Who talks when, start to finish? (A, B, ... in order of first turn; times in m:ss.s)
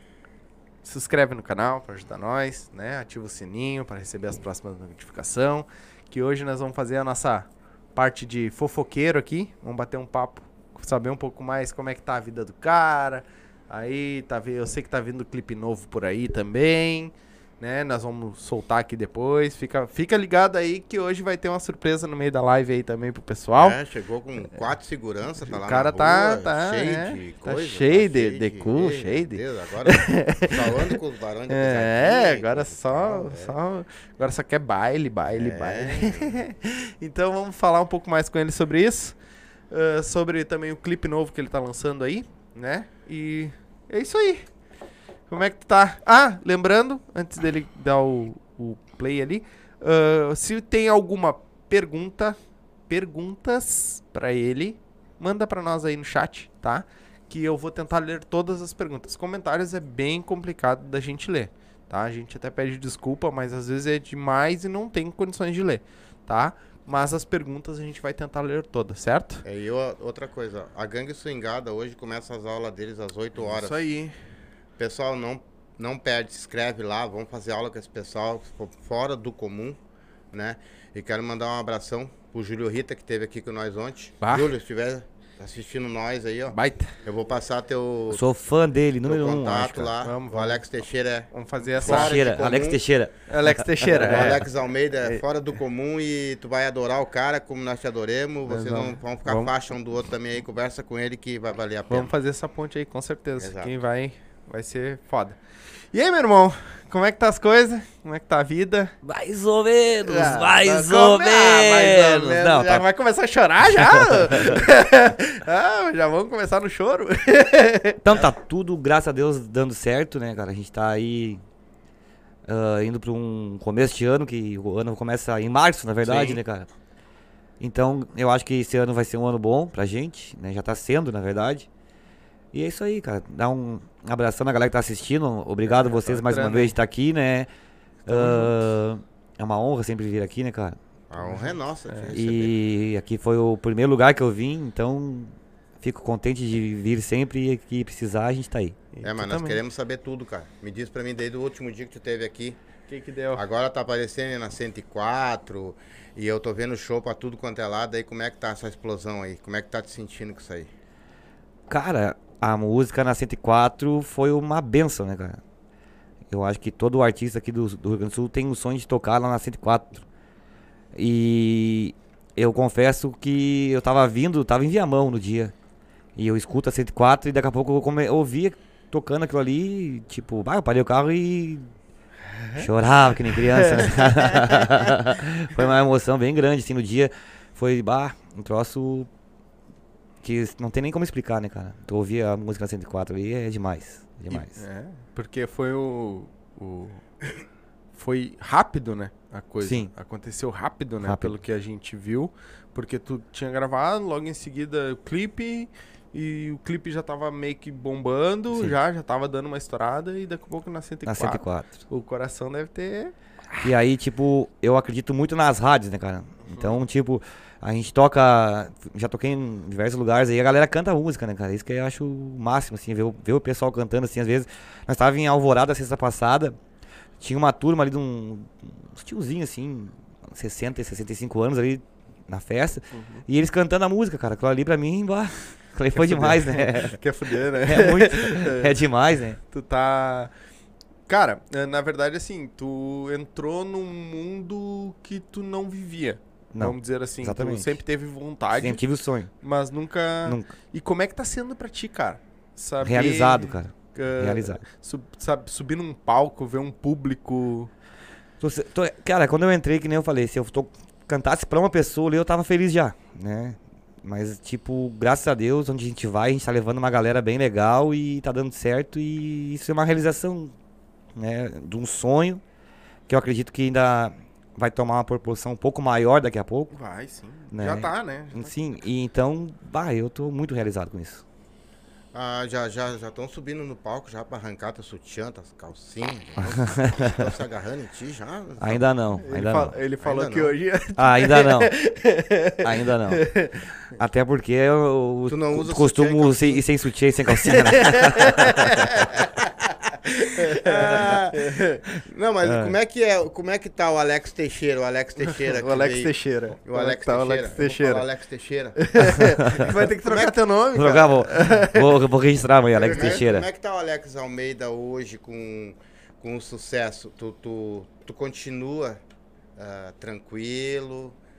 0:00.8-0:23.8 A
0:23.6-0:33.6 B
0:25.5-0:31.0 A
0:31.5-0:39.2 A
0:35.3-0:36.4 B
0:39.7-0:44.5 A
0:45.3-0:52.4 A
0:52.9-1:09.4 A
1:09.4-1:13.8 B
1:13.4-1:14.2 A
1:14.8-1:19.8 B
1:20.3-1:28.2 B
1:24.2-1:24.5 A
1:26.5-1:27.0 A
1:28.1-1:29.9 C
1:29.0-1:32.8 B
1:30.0-1:30.6 A
1:31.3-1:32.2 A
1:31.8-1:34.3 C
1:33.3-1:34.4 A
1:33.9-1:42.1 B
1:38.5-1:39.5 A
1:41.9-1:45.4 A
1:43.4-1:43.7 B
1:45.9-1:49.0 A
1:49.0-1:52.8 C
1:50.0-1:58.0 A
1:53.8-1:54.6 C
1:58.0-2:01.4 C
2:02.5-2:06.7 C
2:06.0-2:06.4 A
2:07.6-2:11.7 C
2:12.5-2:17.5 C
2:15.6-2:16.8 A
2:18.1-2:18.7 A
2:18.1-2:20.8 C
2:21.1-2:22.6 B
2:21.2-2:22.1 A
2:22.1-2:28.8 C
2:28.9-2:29.6 A
2:29.0-2:32.6 B
2:32.9-2:33.4 A
2:33.3-2:40.7 B
2:41.7-2:45.4 C
2:46.3-2:50.0 C
2:50.9-2:55.5 C
2:56.2-3:01.7 C
3:02.6-3:09.1 C
3:10.2-3:14.5 C
3:14.3-3:17.0 A
3:18.0-3:33.1 A
3:19.6-3:19.9 C
3:21.0-3:21.4 C
3:31.0-3:31.8 C
3:33.6-3:46.6 C
3:36.5-3:36.8 A
3:47.2-3:57.0 C
3:52.9-3:53.2 A
3:56.0-3:58.8 A
3:57.6-3:59.4 C
3:59.5-4:00.3 A
4:01.1-4:08.8 A
4:06.5-4:07.8 C
4:08.5-4:09.3 C
4:09.4-4:17.7 A
4:10.3-4:10.5 C
4:12.8-4:14.6 C
4:18.4-4:30.5 C
4:31.1-4:32.4 C
4:33.1-4:36.7 C
4:36.7-4:38.5 A
4:37.5-4:41.2 C
4:42.1-4:48.8 B
4:46.4-4:47.3 C
4:48.6-4:49.7 C
4:49.2-4:53.6 A
4:50.0-4:50.5 B
4:51.0-4:51.7 C
4:52.6-4:53.3 C
4:54.0-4:58.9 C
4:55.3-4:56.6 B
4:57.6-4:59.1 A
4:59.2-5:00.0 B
5:00.2-5:01.8 A
5:00.6-5:01.4 B
5:00.7-5:01.2 C
5:02.0-5:06.1 B
5:02.4-5:02.8 C
5:05.3-5:08.0 A
5:06.6-5:09.0 B
5:08.8-5:12.0 A
5:09.7-5:10.9 B
5:10.7-5:13.5 C
5:12.7-5:19.0 B
5:19.6-5:21.2 B